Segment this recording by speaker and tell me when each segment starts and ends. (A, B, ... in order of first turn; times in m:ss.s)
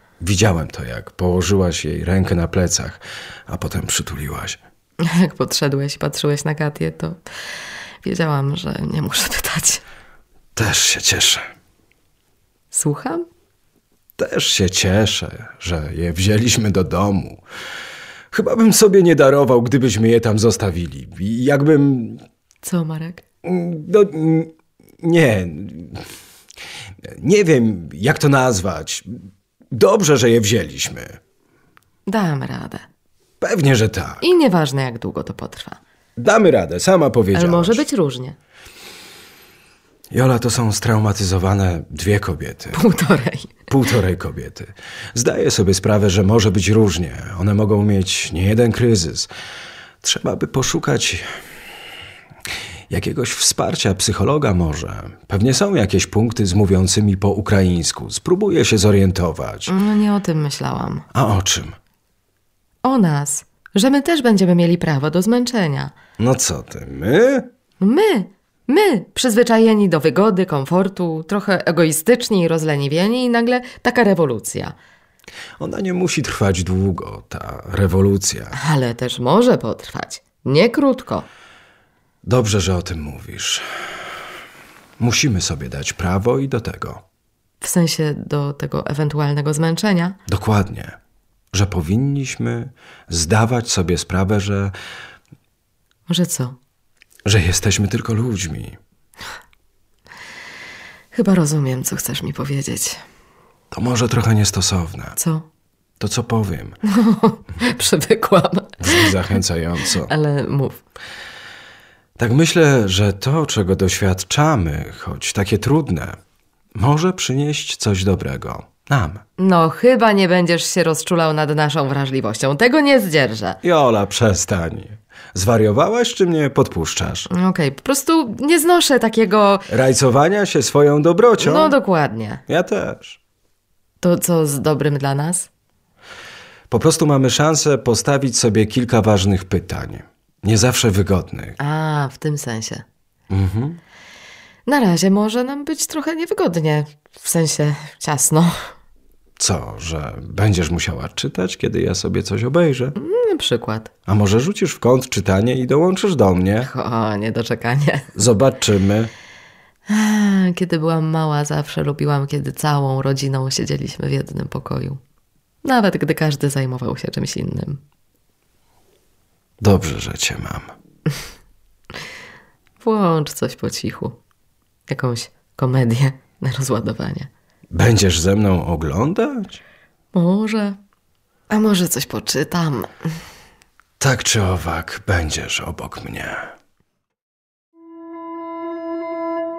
0:00.2-0:04.6 A
0:05.0-0:07.2 B
0:08.0-0:09.8 B
0:10.6-0:11.4 A
0:12.7-0:13.2 B
0:14.2-0:17.4 A
0:18.3-0:22.2 A
0:22.6-0:23.2 B
0:23.4-0:26.0 A
0:27.0-0:29.1 A
0:29.7-0:31.2 A
0:32.1-0:32.8 B
0:33.4-0:34.2 A
0:34.2-0:35.8 B
0:36.2-0:37.8 A
0:37.3-0:38.4 B
0:40.1-0:42.8 A
0:42.7-0:43.7 B
0:43.7-0:49.3 A
0:50.0-0:51.4 A
0:52.9-0:59.7 A
0:59.7-1:01.0 B
1:01.1-1:01.7 A
1:02.8-1:05.9 B
1:06.2-1:07.4 A
1:07.8-1:14.7 B
1:15.6-1:18.6 A
1:18.5-1:21.2 B
1:22.2-1:23.6 A
1:25.0-1:27.0 A
1:27.6-1:30.2 B
1:30.3-1:31.0 A
1:31.5-1:34.7 A
1:36.1-1:36.6 B
1:37.2-1:38.8 A
1:41.1-1:43.0 B
1:43.7-1:45.2 A
1:45.2-1:45.4 B
1:46.0-1:46.8 A
1:46.8-1:49.2 B
1:48.8-1:50.1 A
1:49.9-1:50.8 B
1:52.2-1:56.2 A
1:56.8-1:59.2 A
1:59.4-2:03.6 B
2:03.6-2:07.3 A
2:07.3-2:09.7 B
2:09.7-2:11.8 A
2:11.4-2:12.4 B
2:12.5-2:13.2 A
2:14.0-2:15.5 B
2:16.7-2:21.6 A
2:21.6-2:22.8 B
2:23.3-2:23.8 A
2:24.6-2:28.7 B
2:29.4-2:33.0 A
2:33.0-2:33.9 B
2:34.1-2:36.7 A
2:36.6-2:38.2 B
2:38.1-2:39.1 A
2:39.9-2:45.0 B
2:45.6-2:47.8 B
2:49.6-2:50.7 A
2:52.8-2:54.2 B
2:54.9-2:57.3 B
2:57.7-2:59.6 A
3:00.1-3:00.8 B
3:01.5-3:03.1 B
3:04.0-3:06.5 A